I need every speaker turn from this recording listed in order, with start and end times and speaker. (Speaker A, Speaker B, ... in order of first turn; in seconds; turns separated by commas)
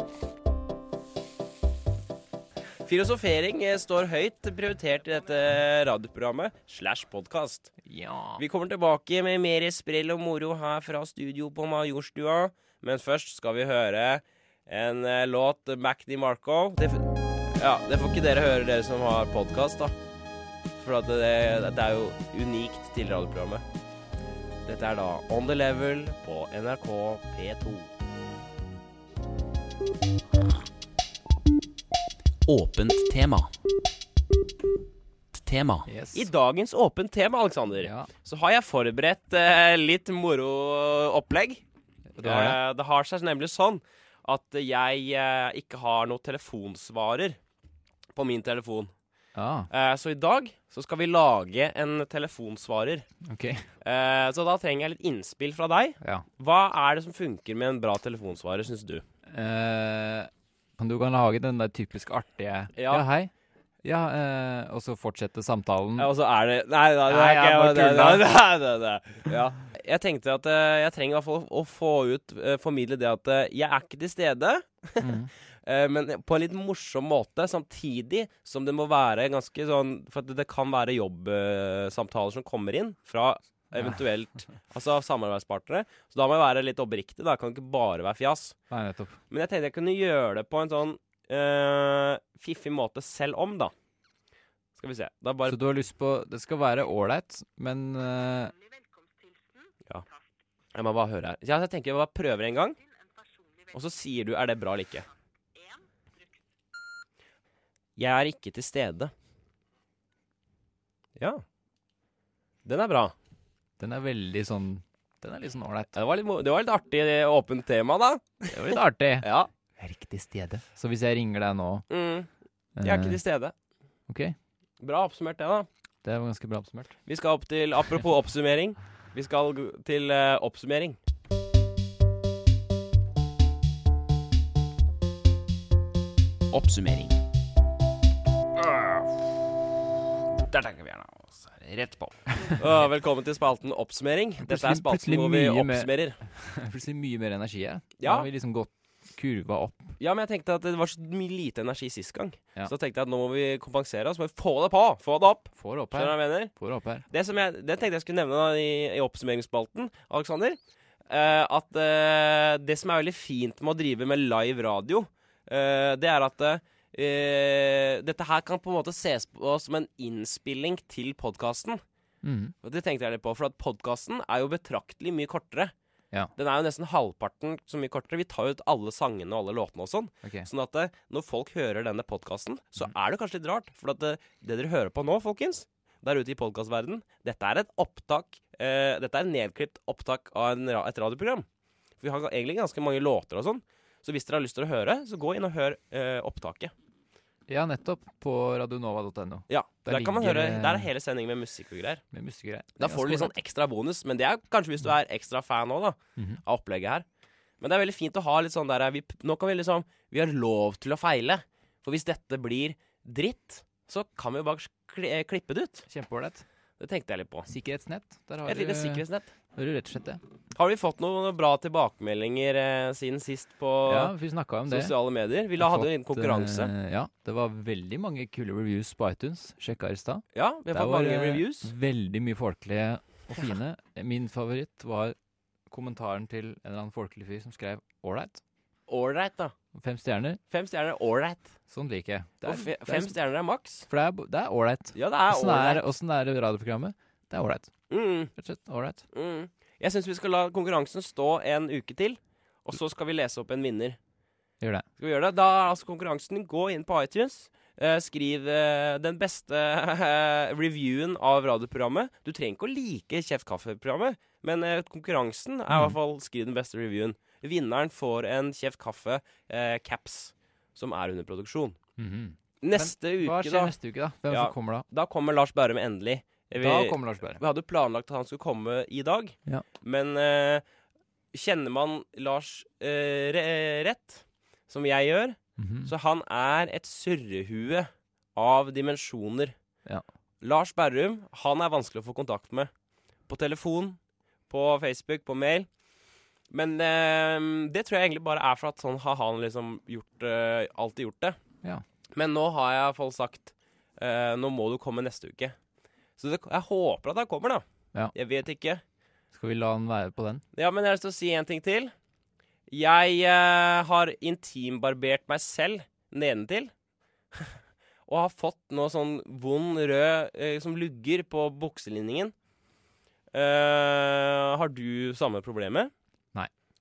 Speaker A: 2.8-7.7, Speaker B: 7.8-8.4, Speaker A: 8.4-19.9, Speaker A: 20.8-23.6, Speaker A: 24.6-27.9, Speaker A: 32.5-33.5, Speaker A: 35.3-41.6, Speaker B: 35.9-36.3, Speaker B: 37.8-38.1, Speaker B: 42.1-42.6, Speaker A: 42.2-47.4, Speaker A: 48.1-48.9, Speaker B: 49.3-49.7, Speaker A: 49.7-53.1, Speaker B: 53.2-53.6, Speaker A: 53.8-59.0, Speaker B: 59.3-63.3, Speaker A: 62.7-63.0, Speaker B: 63.8-66.1, Speaker A: 66.0-88.5, Speaker B: 67.1-68.2, Speaker B: 75.0-75.3, Speaker B: 88.7-89.2, Speaker A: 89.3-93.7, Speaker A: 94.8-95.6, Speaker B: 95.5-98.5, Speaker A: 100.7-102.8, Speaker A: 103.7-105.1, Speaker A: 108.0-109.1, Speaker A: 111.2-111.4, Speaker A: 112.6-113.1, Speaker B: 113.8-116.0, Speaker A: 115.9-119.5, Speaker B: 118.5-121.8, Speaker A: 121.9-122.3, Speaker B: 122.8-123.2, Speaker A: 122.8-123.5, Speaker B: 124.1-124.3, Speaker A: 124.8-125.7, Speaker B: 126.0-126.9, Speaker A: 127.1-131.0, Speaker A: 136.5-137.2, Speaker A: 138.6-139.1, Speaker A: 140.3-146.2, Speaker B: 144.4-150.0, Speaker A: 148.0-148.3, Speaker A: 150.0-156.5, Speaker B: 155.5-157.0, Speaker A: 157.1-171.8, Speaker B: 172.2-172.5, Speaker A: 172.6-175.7, Speaker A: 176.3-191.4, Speaker A: 192.0-196.7, Speaker B: 197.5-200.9, Speaker A: 199.5-202.0, Speaker B: 202.1-203.3, Speaker A: 202.8-207.0, Speaker A: 207.6-215.8, Speaker B: 215.9-216.4, Speaker A: 216.8-217.5, Speaker B: 217.5-220.2, Speaker A: 218.4-219.3, Speaker A: 220.5-224.1, Speaker B: 223.8-224.9, Speaker A: 224.7-226.7, Speaker B: 225.6-235.2, Speaker A: 230.3-231.7, Speaker B: 235.7-238.4, Speaker A: 238.9-239.5, Speaker B: 239.8-240.4, Speaker A: 240.5-241.5, Speaker B: 241.7-243.2, Speaker A: 242.4-243.9, Speaker B: 243.9-247.7, Speaker A: 244.9-245.8, Speaker A: 247.9-248.3, Speaker B: 248.3-249.0, Speaker A: 249.1-254.0, Speaker A: 255.0-271.8, Speaker B: 265.7-266.0, Speaker B: 272.0-274.9, Speaker A: 272.6-273.7, Speaker A: 274.3-280.6, Speaker B: 276.6-277.4, Speaker A: 281.3-289.5, Speaker B: 285.6-285.9, Speaker A: 290.4-292.7, Speaker A: 293.3-294.0, Speaker A: 294.5-295.7, Speaker A: 296.5-301.4, Speaker A: 302.1-305.6, Speaker A: 306.2-307.6, Speaker A: 308.1-308.8, Speaker B: 309.3-310.4, Speaker A: 310.5-311.9, Speaker A: 312.7-316.7, Speaker A: 317.3-322.3, Speaker A: 323.3-325.9